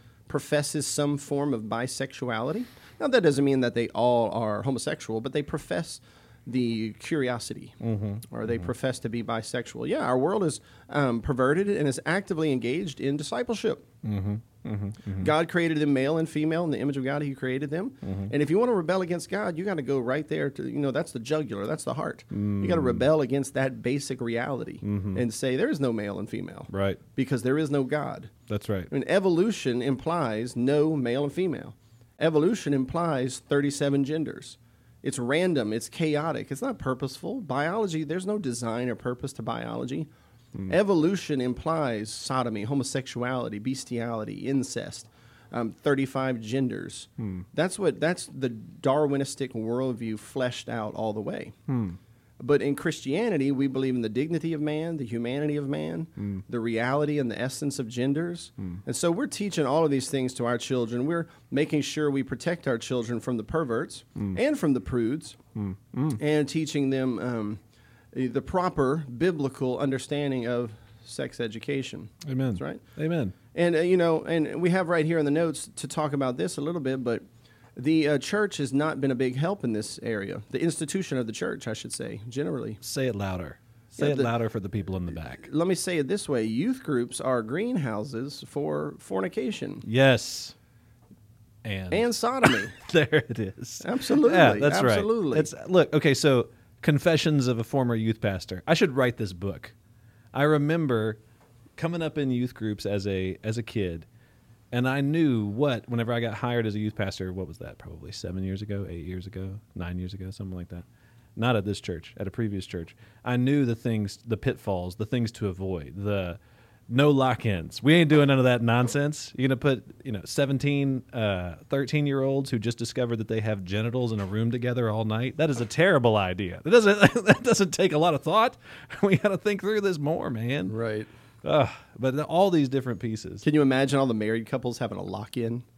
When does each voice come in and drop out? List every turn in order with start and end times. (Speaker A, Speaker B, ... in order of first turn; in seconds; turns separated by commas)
Speaker A: 0.3-7.8, Speaker B: 7.8-8.7, Speaker A: 8.3-13.9, Speaker B: 14.0-15.3, Speaker A: 15.2-28.3, Speaker B: 18.0-18.3, Speaker B: 22.3-23.1, Speaker B: 24.8-25.2, Speaker B: 26.7-27.0, Speaker B: 28.5-28.9, Speaker A: 28.9-40.1, Speaker A: 40.7-51.6, Speaker B: 51.7-52.0, Speaker A: 52.4-65.4, Speaker B: 65.6-66.2, Speaker A: 66.2-67.6, Speaker A: 68.1-72.8, Speaker B: 72.2-73.3, Speaker A: 73.5-77.2, Speaker A: 77.8-82.8, Speaker B: 82.8-85.4, Speaker A: 84.0-84.3, Speaker A: 85.4-89.8, Speaker B: 89.8-90.5, Speaker B: 91.7-99.7, Speaker A: 91.9-92.7, Speaker A: 93.8-95.5, Speaker B: 100.3-101.2, Speaker B: 101.8-104.1, Speaker B: 104.7-110.8, Speaker B: 111.4-130.8, Speaker A: 130.7-131.1, Speaker B: 131.4-133.4, Speaker A: 133.4-135.7